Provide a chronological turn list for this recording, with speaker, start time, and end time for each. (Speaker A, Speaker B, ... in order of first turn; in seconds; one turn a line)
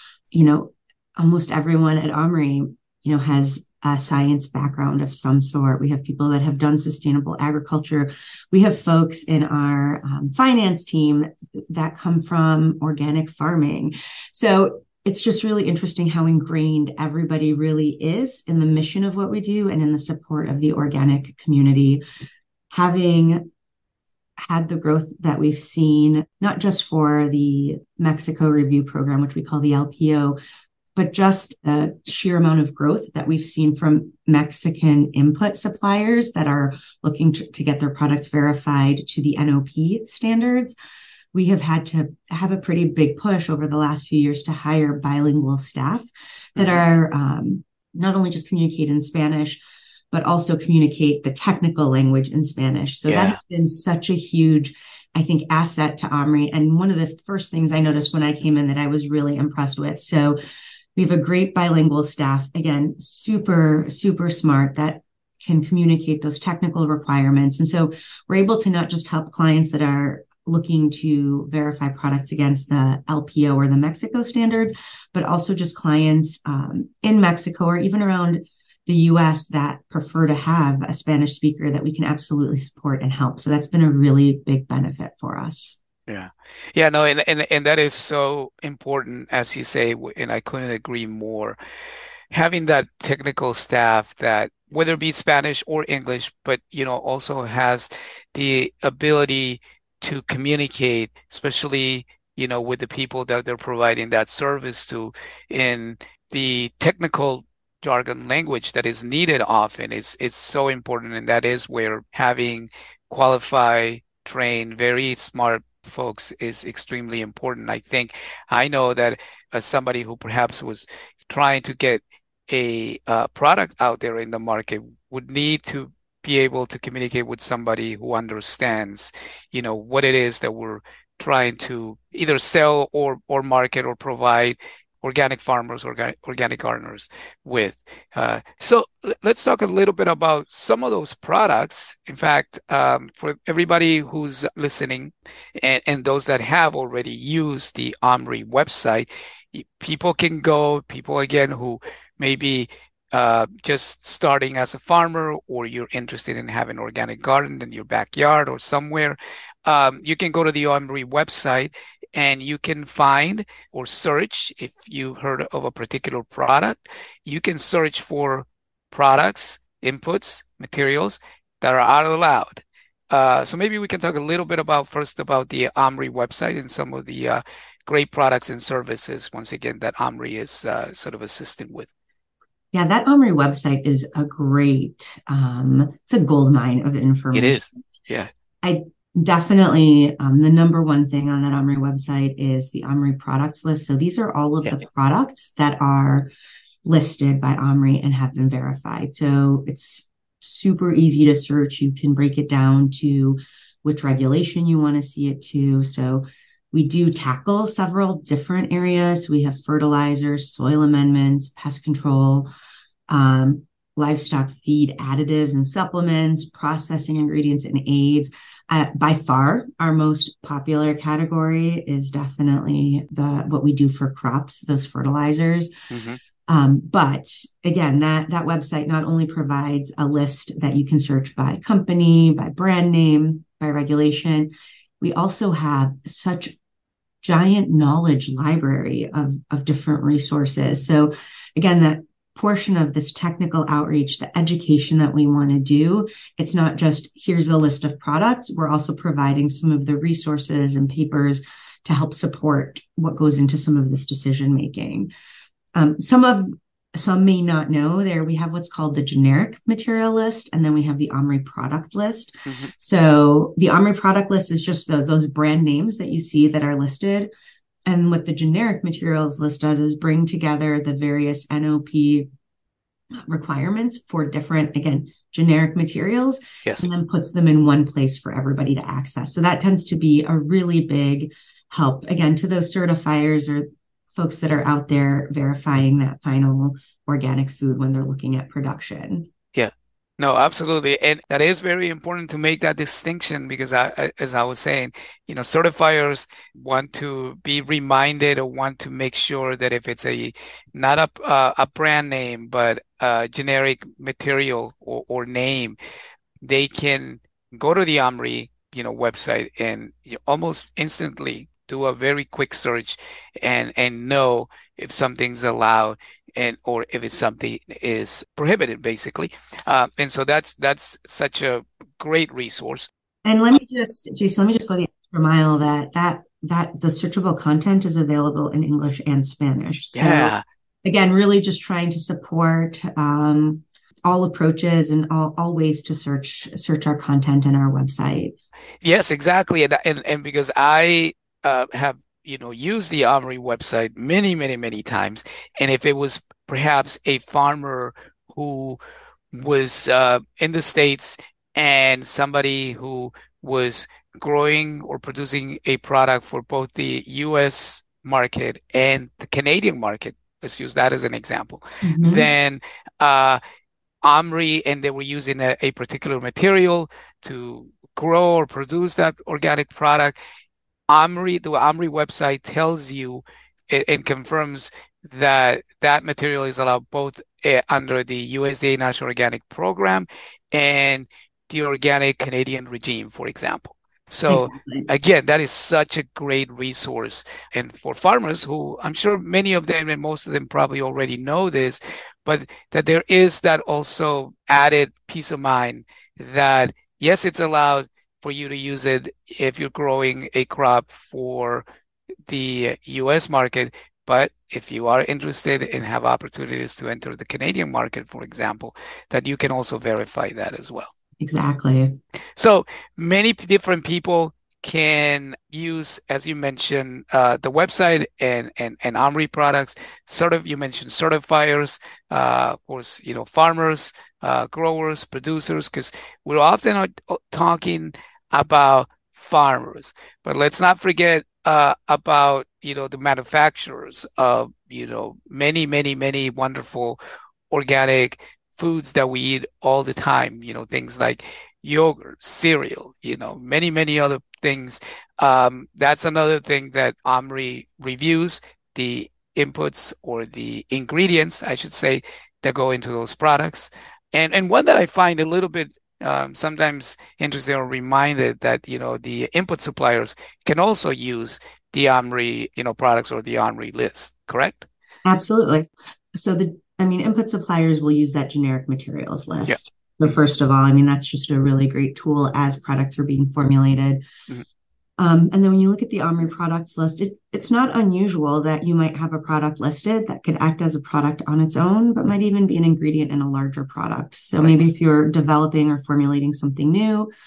Speaker A: 0.3-22.0
Speaker A: 22.7-23.4
Speaker A: 24.4-30.4
Speaker A: 30.9-40.8
Speaker A: 41.3-49.6
Speaker A: 50.1-60.4
Speaker B: 53.1-53.4
Speaker A: 61.0-85.8
Speaker B: 86.1-91.6
Speaker B: 92.3-181.9
Speaker A: 182.7-187.8
Speaker B: 187.3-188.3
Speaker A: 188.6-196.3
Speaker A: 196.8-212.5
Speaker A: 213.1-225.7
Speaker B: 225.9-226.2
Speaker A: 226.5-236.5
Speaker A: 237.2-255.1
Speaker A: 255.7-267.3
Speaker A: 267.9-272.3
Speaker A: 273.3-289.3
Speaker B: 289.5-305.8
Speaker B: 306.4-322.9
Speaker A: 323.2-338.4
Speaker B: 329.9-330.4
Speaker B: 338.8-348.8
Speaker B: 349.3-363.4
Speaker A: 361.8-362.3
Speaker B: 364.0-370.1
Speaker B: 370.9-401.6
Speaker A: 384.3-384.9
Speaker B: 402.3-410.9
Speaker A: 411.2-412.0
Speaker B: 412.4-437.0
Speaker B: 437.5-464.7
Speaker A: 465.0-474.0
Speaker A: 475.0-487.1